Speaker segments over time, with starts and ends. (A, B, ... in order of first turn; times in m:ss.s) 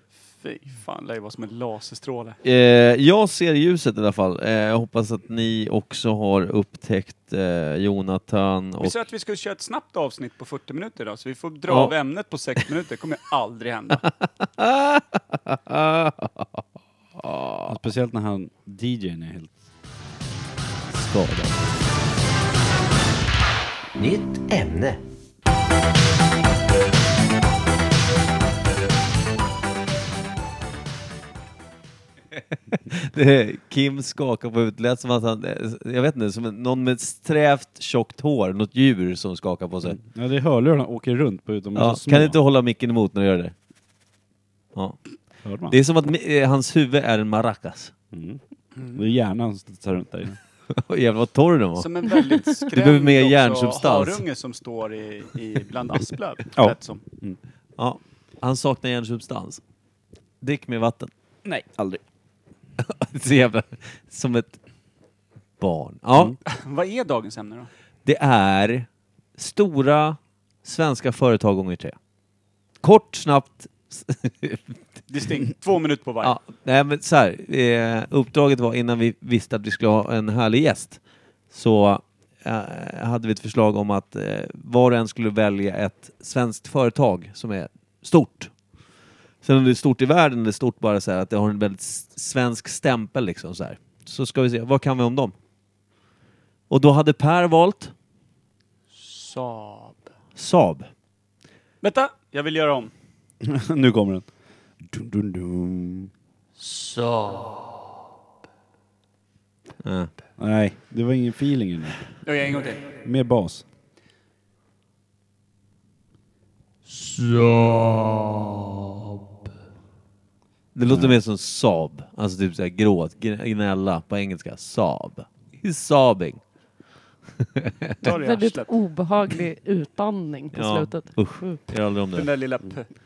0:00.3-0:02.4 A
0:02.4-0:09.0 B
0:08.8-0:14.1 A
0:11.7-0:11.9 B
0:14.6-0:16.6 B
0:17.2-0:17.7 B
0:17.7-0:19.6 C
0:20.9-0:21.6 B
0:24.0-0:25.0 B
0:32.7-0:40.0 B
0:39.8-0:42.4 C
0:41.8-0:43.5 B
0:44.8-0:47.9 B
0:45.4-0:45.8 C
0:48.1-0:50.4 C
0:48.8-0:49.0 A
0:50.7-0:54.2 B
0:51.8-0:57.0 A
0:56.6-0:57.4 C
0:57.8-0:59.6 B
1:00.4-1:01.1 B
1:01.4-1:02.0 C
1:02.8-1:04.6 B
1:05.6-1:06.4 B
1:06.5-1:07.7 A
1:08.1-1:12.0 B
1:12.8-1:15.0 B
1:15.1-1:16.4 A
1:16.2-1:28.5 B
1:29.4-1:35.3 B
1:36.7-1:37.9 B
1:38.9-1:40.1 A
1:40.4-1:40.9 B
1:41.8-1:42.9 A
1:43.4-1:46.1 C
1:46.6-1:47.4 B
1:49.8-1:50.1 B
1:50.4-1:52.2 C
1:52.2-1:52.9 A
1:53.0-1:53.6 C
1:56.9-1:58.0 B
2:00.8-2:06.4 B
2:00.9-2:01.2 C
2:08.0-2:08.7 A
2:08.0-2:11.6 D
2:10.5-2:12.3 B
2:12.1-2:12.9 A